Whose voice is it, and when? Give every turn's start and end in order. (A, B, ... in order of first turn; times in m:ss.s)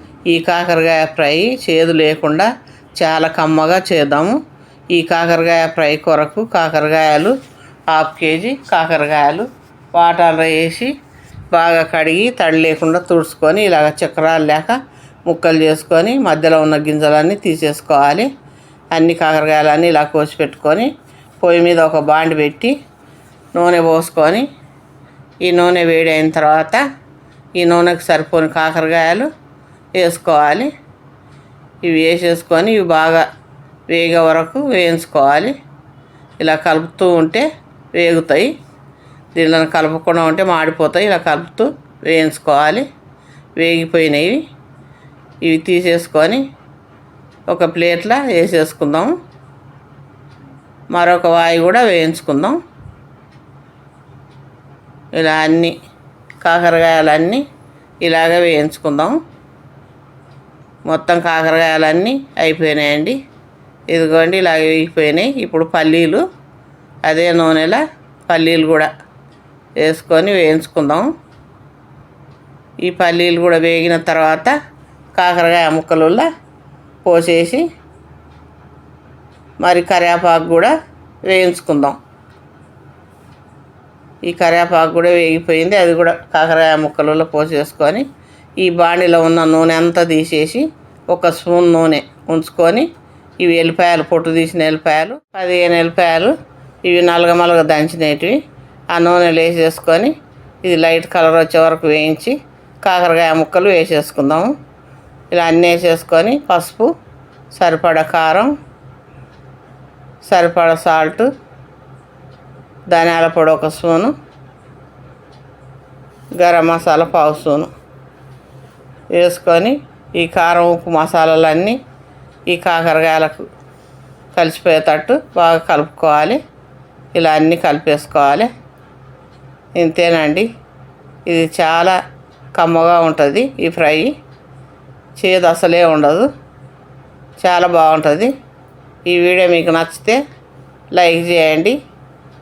0:00.3-0:04.4 A
0:04.9-0:07.4 A
0:07.9-0:10.9 A
0:11.5-0:18.3 A
0:18.9-0:22.7 A
0:23.5-0:24.5 A
0:25.4-0:26.8 A
0:27.6-0:29.3 A
0:30.0-0:30.7 A
0:31.8-0:33.2 A
0:33.9-0:35.6 A
0:36.4-0:38.5 A
0:39.3-0:42.9 A
0:43.6-0:44.4 A
0:45.4-0:46.4 A
0:47.5-0:49.1 A
0:50.9-0:52.6 A
0:55.1-0:55.7 A
0:56.4-0:57.4 A
0:58.0-0:59.2 A
1:00.9-1:03.2 A
1:03.9-1:06.2 A
1:07.0-1:08.9 A
1:09.8-1:11.1 A
1:12.8-1:14.5 A
1:15.1-1:16.2 A
1:17.0-1:17.6 A
1:19.6-1:20.7 A
1:21.2-1:22.0 A
1:24.2-1:28.0 A
1:28.6-1:32.9 A
1:33.4-1:38.4 A
1:38.9-1:40.1 A
1:40.6-1:44.5 A
1:45.3-1:46.9 A
1:47.5-1:48.5 A
1:50.2-1:51.3 A
1:52.9-1:54.1 A
1:56.4-1:57.7 A
1:59.1-2:01.8 A
2:02.5-2:03.5 A
2:04.3-2:06.4 A
2:07.1-2:08.5 A
2:09.8-2:10.5 A
2:11.3-2:12.0 A
2:12.6-2:14.1 A
2:15.2-2:16.3 A
2:17.4-2:18.3 A
2:19.0-2:20.2 A
2:20.9-2:21.8 A